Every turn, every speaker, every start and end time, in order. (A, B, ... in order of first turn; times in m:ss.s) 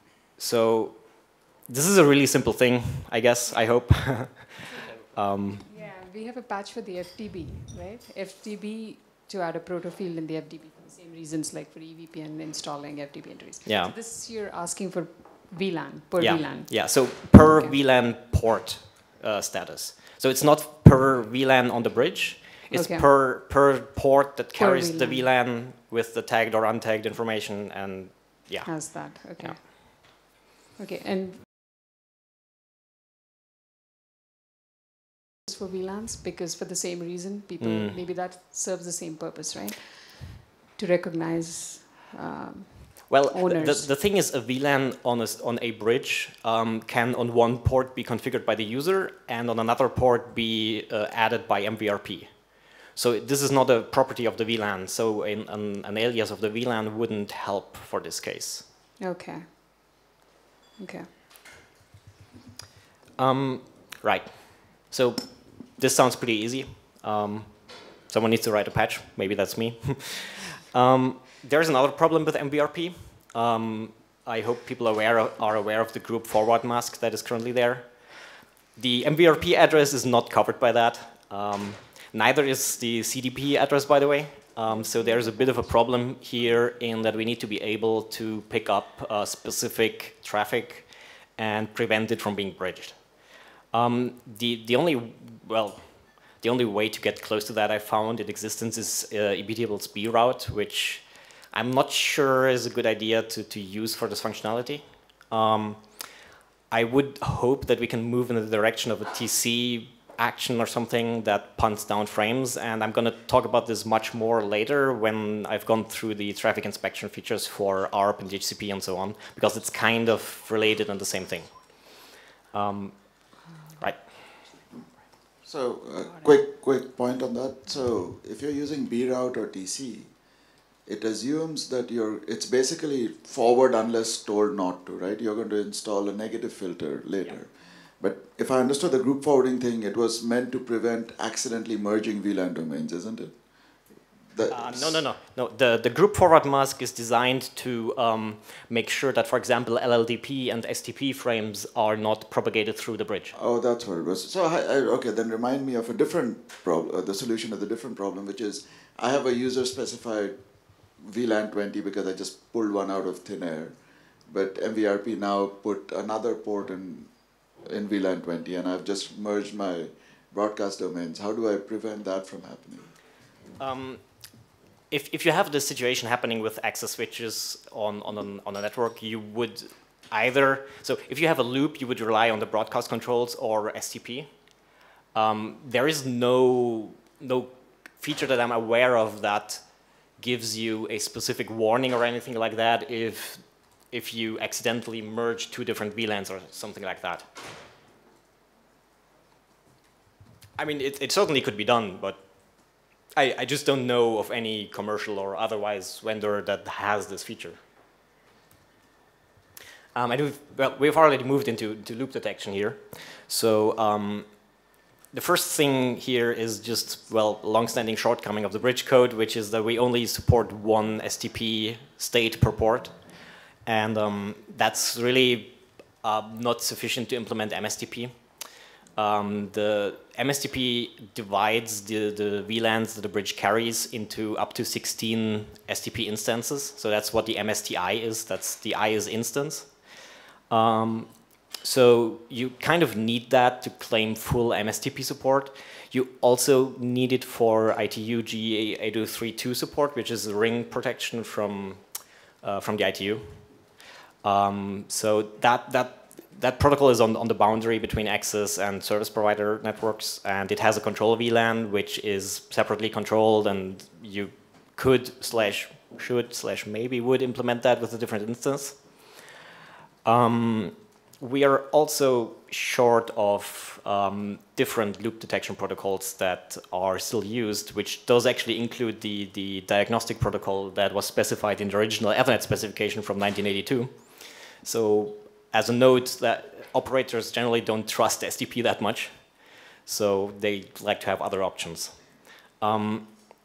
0:00.4-0:05.6 A
0:05.7-0:17.7 B
0:13.6-0:14.0 A
0:16.2-0:29.6 A
0:22.7-0:23.1 B
0:24.6-0:25.2 B
0:28.6-0:31.5 B
0:35.5-0:43.9 B
0:37.6-0:38.0 A
0:43.1-0:58.6 A
0:59.0-1:00.0 B
1:00.8-1:01.1 B
1:03.2-1:18.1 A
1:18.8-1:33.0 A
1:33.7-1:35.8 A
1:36.4-1:45.8 A
1:46.7-2:02.0 A
2:02.5-2:04.1 A
2:05.4-2:10.1 C
2:10.9-2:23.4 C
2:24.3-2:25.0 C
2:24.5-2:33.4 A
2:33.3-2:40.4 C
2:41.0-2:43.8 C
2:44.3-2:52.9 C
2:53.6-2:54.0 A
2:54.9-3:04.3 A
3:05.2-3:09.6 A
3:10.2-3:17.3 A
3:20.6-3:22.2 A
3:23.1-3:27.6 A
3:30.0-3:34.3 A
3:35.1-3:43.0 A
3:43.6-3:48.1 A
3:49.0-3:59.7 A
4:00.5-4:01.1 A
4:01.6-4:11.8 A
4:12.4-4:13.4 A
4:14.2-4:28.8 A
4:30.0-4:44.0 A
4:44.6-4:49.3 A
4:49.8-4:52.0 A
4:52.6-4:53.1 A